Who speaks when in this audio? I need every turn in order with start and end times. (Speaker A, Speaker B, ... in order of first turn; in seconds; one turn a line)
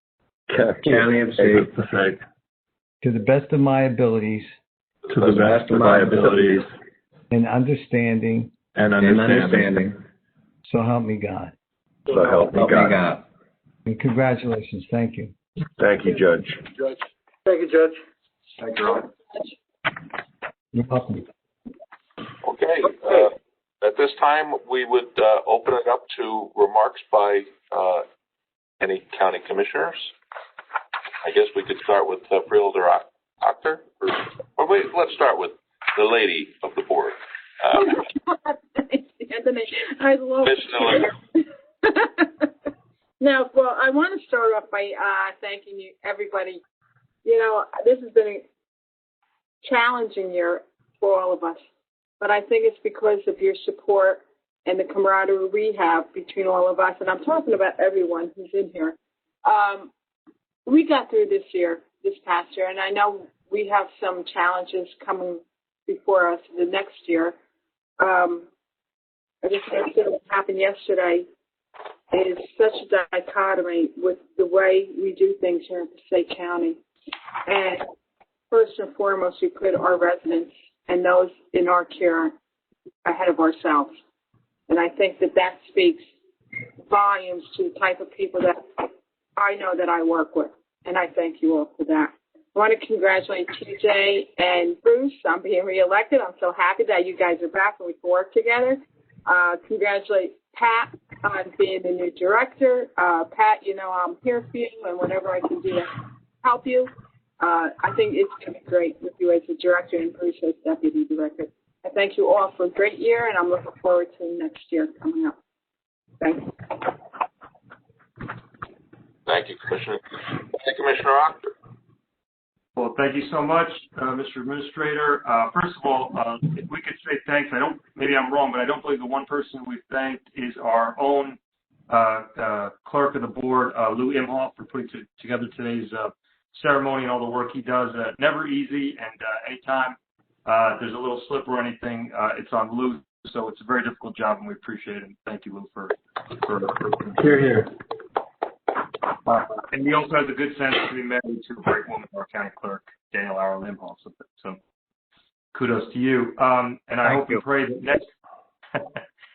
Speaker A: 0.8-1.7
Speaker B: 0.9-2.2
Speaker C: 3.0-4.5
Speaker B: 5.1-6.7
Speaker D: 5.2-6.2
Speaker A: 5.4-6.6
Speaker C: 7.3-8.5
Speaker B: 8.7-9.8
Speaker A: 9.0-10.0
Speaker C: 10.6-11.5
Speaker D: 12.1-13.0
Speaker A: 12.5-13.2
Speaker C: 13.8-15.3
Speaker D: 15.8-16.6
Speaker E: 18.6-18.9
Speaker C: 20.7-21.3
Speaker F: 22.4-28.0
Speaker F: 28.8-30.1
Speaker F: 31.2-38.0
Speaker G: 37.7-42.7
Speaker F: 40.4-41.1
Speaker G: 43.2-46.6
Speaker G: 47.2-48.4
Speaker G: 49.6-51.6
Speaker G: 52.2-59.9
Speaker G: 60.6-67.3
Speaker G: 68.0-68.5
Speaker G: 69.4-71.2
Speaker G: 72.1-76.8
Speaker G: 77.5-77.8
Speaker G: 78.5-82.3
Speaker G: 83.0-83.9
Speaker G: 84.7-86.0
Speaker G: 86.9-106.9
Speaker G: 107.4-115.3
Speaker G: 116.2-117.0
Speaker F: 119.2-121.5
Speaker E: 122.8-131.4
Speaker E: 131.9-147.3
Speaker B: 147.2-147.7
Speaker E: 149.2-154.6
Speaker E: 155.5-158.0